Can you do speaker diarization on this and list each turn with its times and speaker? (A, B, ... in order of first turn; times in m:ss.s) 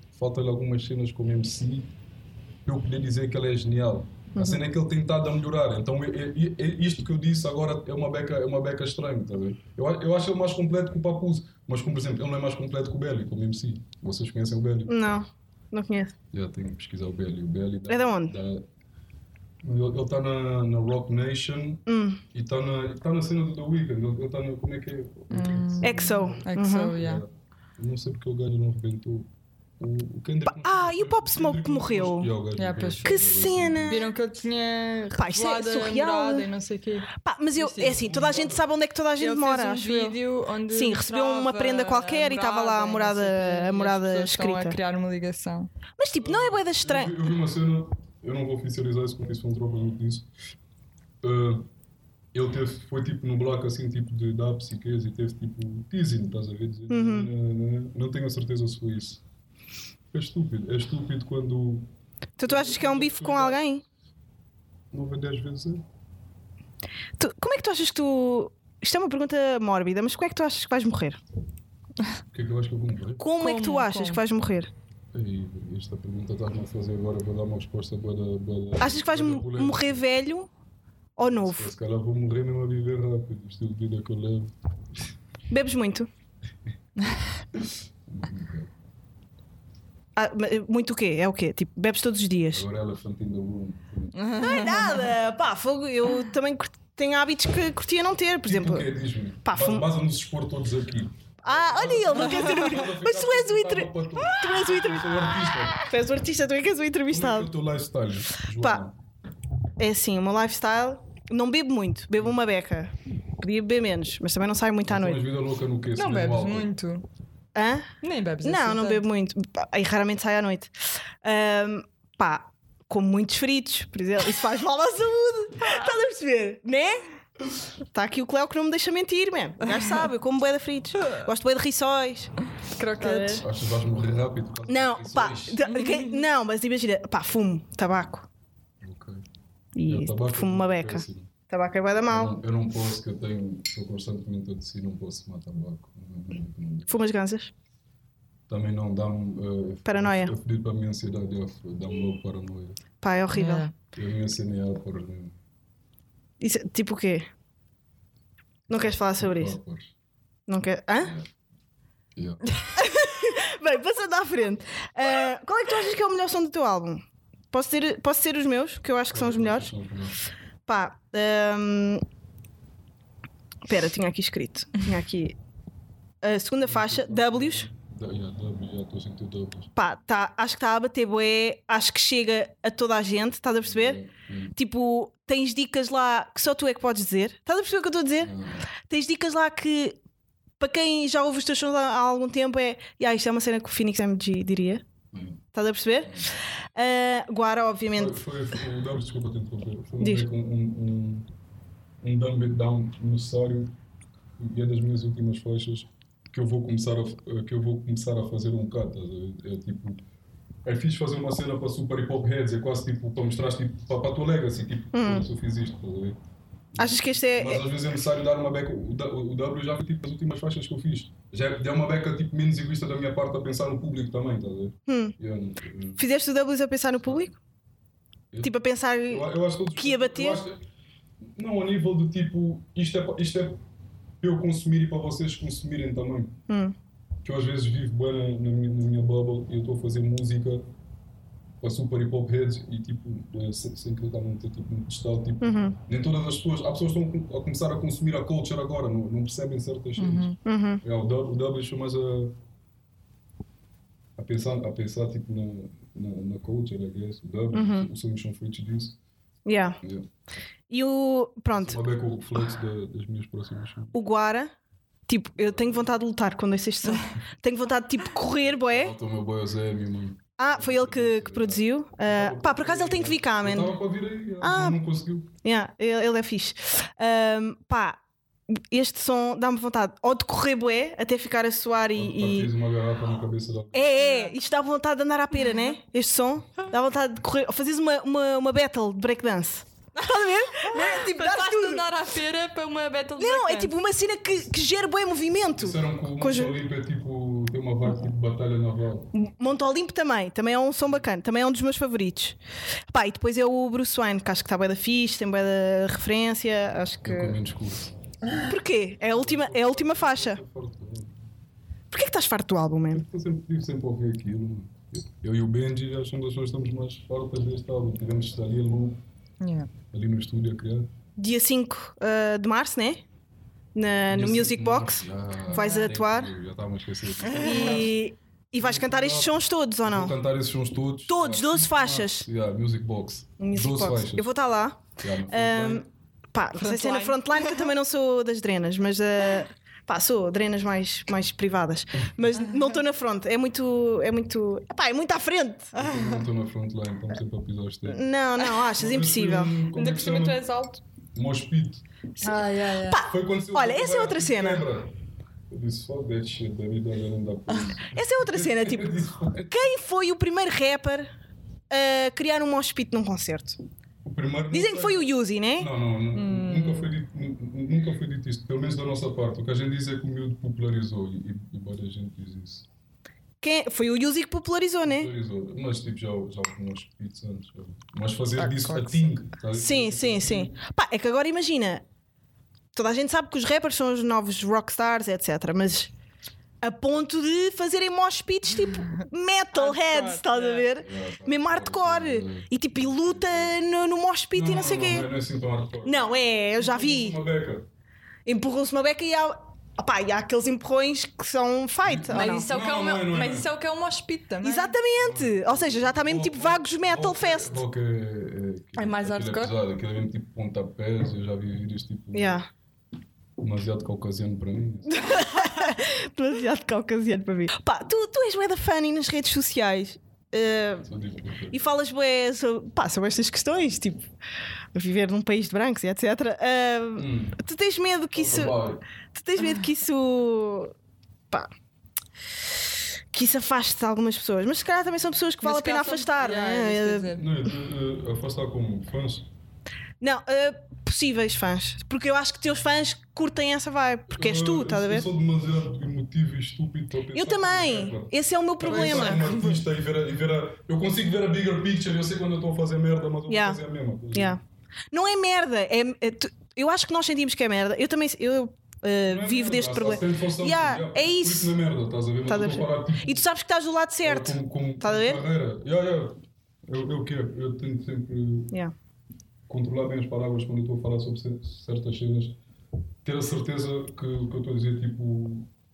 0:00.1-0:01.9 A
0:02.6-0:15.1 A
0:04.3-0:04.6 B
0:14.9-0:16.1 B
0:16.3-0:18.7 A
0:17.9-0:18.4 B
0:19.6-0:26.4 A
0:21.9-0:22.2 B
0:25.3-0:27.2 C
0:25.8-0:26.9 B
0:26.9-0:34.0 A
0:30.5-0:32.3 B
0:32.6-0:33.3 C
0:33.0-0:34.0 B
0:33.9-0:38.0 C
0:35.1-0:36.5 B
0:37.2-0:44.8 B
0:37.8-0:38.6 A
0:39.2-0:45.7 C
0:46.0-0:47.2 B
0:46.2-0:50.3 A
0:51.2-0:51.7 A
0:52.3-0:59.2 A
0:56.9-0:57.3 B
1:00.1-1:01.9 A
1:02.4-1:03.8 B
1:02.4-1:03.6 A
1:04.9-1:05.8 A
1:07.2-1:11.2 B
1:12.3-1:13.2 A
1:13.2-1:14.7 B
1:13.4-1:14.2 C
1:15.1-1:20.0 A
1:18.8-1:20.5 B
1:21.2-1:21.7 B
1:21.3-1:25.0 A
1:25.5-1:26.1 B
1:27.5-1:28.7 A
1:30.2-1:32.6 B
1:32.5-1:34.3 A
1:34.1-1:35.1 C
1:34.4-1:38.9 B
1:38.4-1:45.9 A
1:39.4-1:39.9 B
1:41.4-1:45.1 B
1:45.8-1:47.5 B
1:47.1-1:49.0 A
1:48.6-1:48.8 B
1:49.8-1:55.2 B
1:54.9-1:56.7 A
1:56.0-1:57.0 C
1:57.5-1:57.9 B
1:58.0-1:59.0 C
1:58.4-2:00.7 B
2:01.2-2:07.0 B
2:07.9-2:12.3 B
2:12.8-2:13.4 C
2:13.0-2:13.4 B
2:13.4-2:15.6 A
2:14.7-2:18.3 B
2:15.7-2:16.2 C
2:18.8-2:19.2 A
2:19.7-2:22.4 B
2:19.8-2:21.3 A
2:22.1-2:27.0 A
2:26.9-2:27.5 B
2:28.5-2:32.8 A
2:29.8-2:30.3 B
2:33.0-2:33.7 B
2:33.3-2:33.7 C
2:33.9-2:35.3 A
2:36.4-2:37.3 B
2:38.7-2:39.6 B
2:38.7-2:39.9 A
2:40.5-2:41.1 B
2:41.0-2:41.3 A
2:42.1-2:42.4 A
2:42.7-2:49.7 B
2:49.1-2:50.2 A
2:50.7-2:52.0 B
2:53.7-2:55.4 B
2:56.2-2:57.6 B
2:56.6-2:59.7 A
2:59.8-3:04.0 B
3:03.6-3:04.5 A
3:04.5-3:08.3 B
3:08.2-3:08.6 A
3:08.8-3:10.0 B
3:10.6-3:14.8 B
3:15.1-3:15.4 A
3:15.5-3:18.2 B
3:17.9-3:21.3 A
3:22.0-3:23.8 A
3:24.4-3:30.0 A
3:30.6-3:36.2 A
3:34.9-3:35.2 B
3:36.7-3:46.0 A
3:36.8-3:37.6 B
3:44.9-3:45.2 B
3:46.0-3:47.3 B
3:48.4-3:50.4 B
3:49.1-3:50.6 A
3:51.3-3:53.6 A
3:54.2-3:56.4 A
3:56.5-3:56.7 B
3:57.2-4:00.7 A
4:01.6-4:12.4 A
4:05.4-4:05.8 B
4:10.0-4:10.4 C
4:10.4-4:10.8 B
4:14.2-4:19.0 A
4:17.5-4:17.9 B
4:19.4-4:19.8 B
4:19.8-4:20.1 A
4:20.7-4:21.8 B
4:21.5-4:23.9 A
4:23.9-4:24.5 B
4:25.1-4:28.9 B
4:25.4-4:25.8 A
4:28.4-4:35.3 A
4:30.4-4:33.8 B
4:34.4-4:34.8 B
4:35.4-4:38.0 B
4:38.5-4:42.5 B
4:41.9-4:43.9 A
4:43.7-4:51.8 B
4:44.0-4:44.3 C
4:49.9-4:53.7 C
4:53.2-4:56.6 B
4:55.5-4:59.1 A
4:59.1-5:02.4 B
5:02.9-5:07.4 B
5:07.0-5:07.9 A
5:08.4-5:10.4 B
5:09.1-5:11.2 A
5:11.9-5:13.0 B
5:12.9-5:19.0 A
5:19.4-5:19.7 C
5:19.9-5:20.9 A
5:21.2-5:23.0 B
5:23.7-5:26.3 B
5:24.1-5:28.0 A
5:27.3-5:27.8 C
5:27.4-5:30.1 B
5:28.6-5:34.3 A
5:31.1-5:32.3 B
5:33.4-5:45.8 B
5:35.0-5:35.8 A
5:36.6-5:37.6 C
5:45.7-5:48.0 A
5:45.8-5:46.1 C
5:47.9-5:49.6 B
5:48.7-5:50.4 A
5:49.7-5:50.8 C
5:51.1-5:51.8 A
5:52.2-5:54.6 B
5:52.2-5:53.0 C
5:53.0-5:54.9 A
5:55.5-5:59.6 A
5:57.9-6:01.1 B
6:01.7-6:03.6 B
6:04.0-6:12.7 A
6:04.5-6:05.7 B
6:06.1-6:06.8 C
6:13.4-6:15.1 B
6:14.8-6:20.5 A
6:18.4-6:19.1 C
6:19.5-6:21.8 B
6:22.7-6:25.9 B
6:26.6-6:35.1 B
6:28.7-6:29.0 C
6:29.5-6:30.7 C
6:30.8-6:33.6 A
6:34.3-6:37.7 A
6:35.8-6:37.2 B
6:38.2-6:42.5 B
6:41.8-6:43.5 A
6:42.1-6:44.7 C
6:44.4-6:47.6 B
6:45.0-6:52.4 A
6:48.8-6:49.5 C
6:52.1-6:52.5 B
6:53.4-6:55.0 A
6:54.9-7:00.9 B
7:00.8-7:01.6 A
7:01.5-7:04.1 B
7:04.7-7:08.6 B
7:07.0-7:07.4 A
7:08.1-7:08.8 A
7:09.1-7:10.7 B
7:13.1-7:17.1 B
7:15.4-7:17.2 C
7:17.1-7:19.3 A
7:20.0-7:25.1 B
7:24.1-7:34.4 A
7:27.1-7:29.3 B
7:28.6-7:29.6 C
7:33.3-7:33.6 B
7:34.1-7:34.4 B
7:34.9-7:41.5 B
7:39.0-7:43.2 A
7:42.3-7:45.2 B
7:44.0-7:48.5 A
7:49.5-7:52.4 A
7:53.0-7:55.5 A